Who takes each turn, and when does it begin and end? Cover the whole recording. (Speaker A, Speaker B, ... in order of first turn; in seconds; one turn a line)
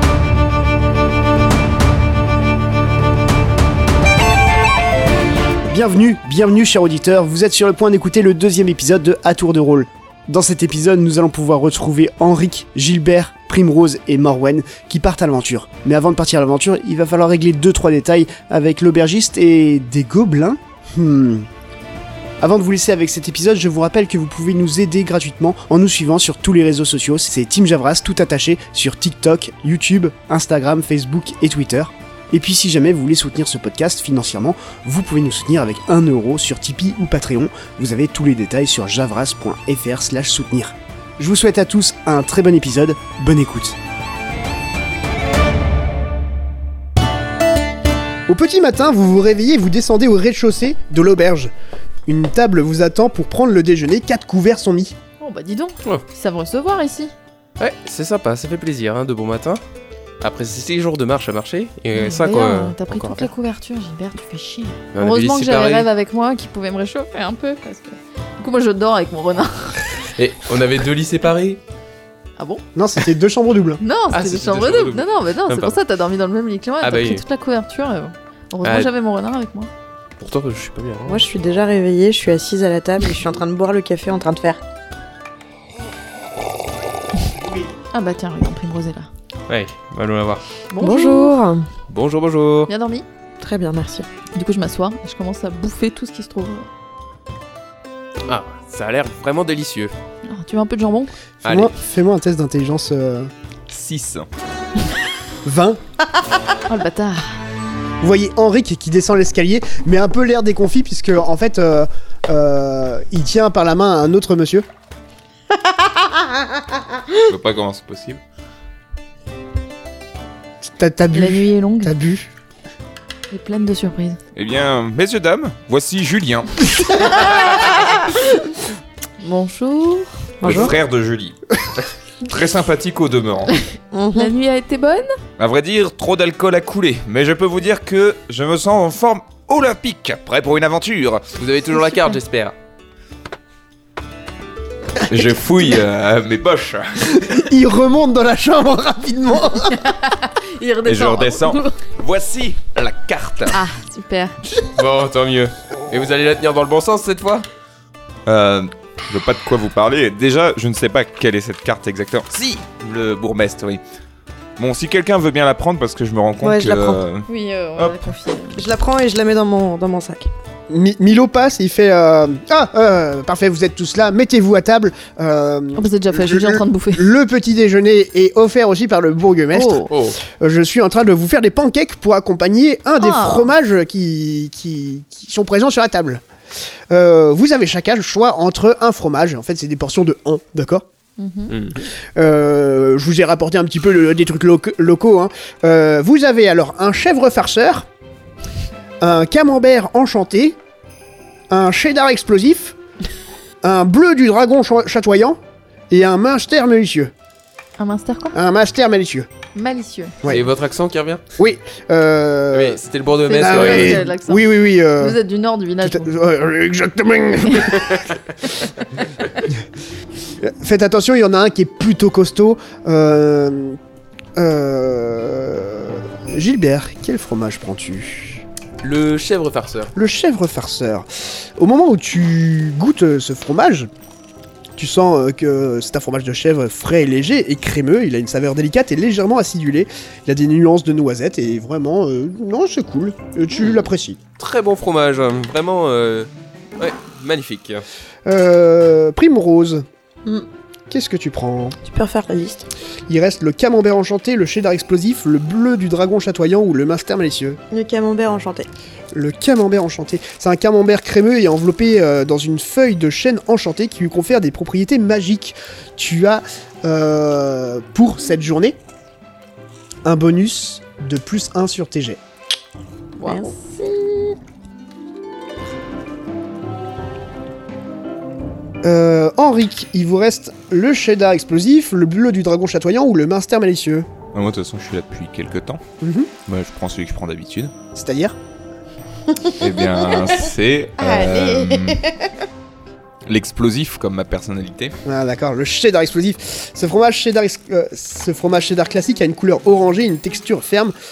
Speaker A: 5.7-21.5
Speaker A: 22.4-43.8
Speaker A: 48.3-51.5
Speaker A: 52.1-55.0
Speaker B: 55.2-57.1
Speaker C: 57.6-59.6
Speaker C: 60.2-63.3
Speaker B: 61.9-69.9
Speaker C: 65.0-65.9
Speaker C: 70.2-71.6
Speaker A: 72.8-73.8
Speaker B: 73.8-79.7
Speaker C: 74.1-75.7
Speaker C: 76.8-77.2
Speaker C: 78.6-78.9
Speaker C: 80.2-81.2
Speaker D: 81.0-84.6
Speaker B: 87.9-89.1
Speaker C: 89.5-90.4
Speaker B: 90.7-91.3
Speaker D: 90.8-91.7
Speaker C: 91.9-92.7
Speaker B: 92.7-93.1
Speaker D: 93.4-94.1
Speaker B: 94.3-96.7
Speaker C: 98.3-99.9
Speaker B: 100.2-101.1
Speaker C: 101.4-101.7
Speaker A: 101.4-103.3
Speaker E: 103.7-104.3
Speaker A: 105.5-105.8
Speaker B: 106.7-107.4
Speaker A: 108.0-114.7
Speaker E: 117.2-118.2
Speaker A: 120.6-122.3
Speaker B: 121.1-121.9
Speaker B: 123.3-124.2
Speaker E: 124.3-127.7
Speaker B: 129.2-130.1
Speaker D: 130.4-130.8
Speaker E: 130.4-131.4
Speaker E: 132.2-133.6
Speaker D: 133.9-134.3
Speaker B: 134.2-135.1
Speaker E: 135.4-141.3
Speaker C: 141.4-142.6
Speaker B: 141.7-142.2
Speaker E: 145.0-147.3
Speaker A: 147.3-149.8
Speaker B: 149.7-151.8
Speaker E: 150.8-153.6
Speaker B: 153.5-154.4
Speaker C: 154.7-157.5
Speaker E: 158.3-163.8
Speaker E: 164.6-168.0
Speaker D: 166.4-167.0
Speaker B: 167.3-168.6
Speaker D: 168.6-170.3
Speaker A: 170.7-186.2
Speaker B: 175.8-177.1
Speaker B: 179.5-179.9
Speaker C: 179.9-180.2
Speaker B: 183.0-183.5
Speaker A: 186.9-190.8
Speaker B: 191.2-191.6
Speaker C: 191.5-191.8
Speaker A: 192.2-197.9
Speaker A: 199.0-200.6
Speaker A: 201.5-202.8
Speaker A: 203.6-205.4
Speaker A: 205.9-207.1
Speaker B: 207.8-208.4
Speaker A: 208.3-209.3
Speaker B: 209.6-210.2
Speaker C: 210.3-211.2
Speaker A: 211.4-212.8
Speaker C: 212.5-214.1
Speaker B: 213.2-216.1
Speaker A: 213.3-215.2
Speaker A: 215.8-218.1
Speaker B: 217.5-217.8
Speaker A: 220.4-223.8
Speaker A: 224.4-228.4
Speaker C: 228.8-229.9
Speaker A: 229.9-233.9
Speaker A: 234.8-244.2
Speaker C: 243.6-243.8
Speaker C: 244.4-247.9
Speaker A: 248.3-249.8
Speaker A: 250.9-251.8
Speaker D: 251.8-252.7
Speaker A: 253.1-257.6
Speaker D: 257.7-258.7
Speaker A: 259.1-268.8
Speaker A: 270.1-272.2
Speaker B: 273.2-273.5
Speaker D: 273.2-274.4
Speaker A: 278.8-284.1
Speaker E: 284.3-285.8
Speaker A: 286.0-286.3
Speaker E: 286.5-287.7
Speaker A: 287.9-288.4
Speaker E: 289.5-292.0
Speaker D: 289.9-290.3
Speaker D: 291.0-292.3
Speaker E: 293.3-295.0
Speaker A: 295.1-300.9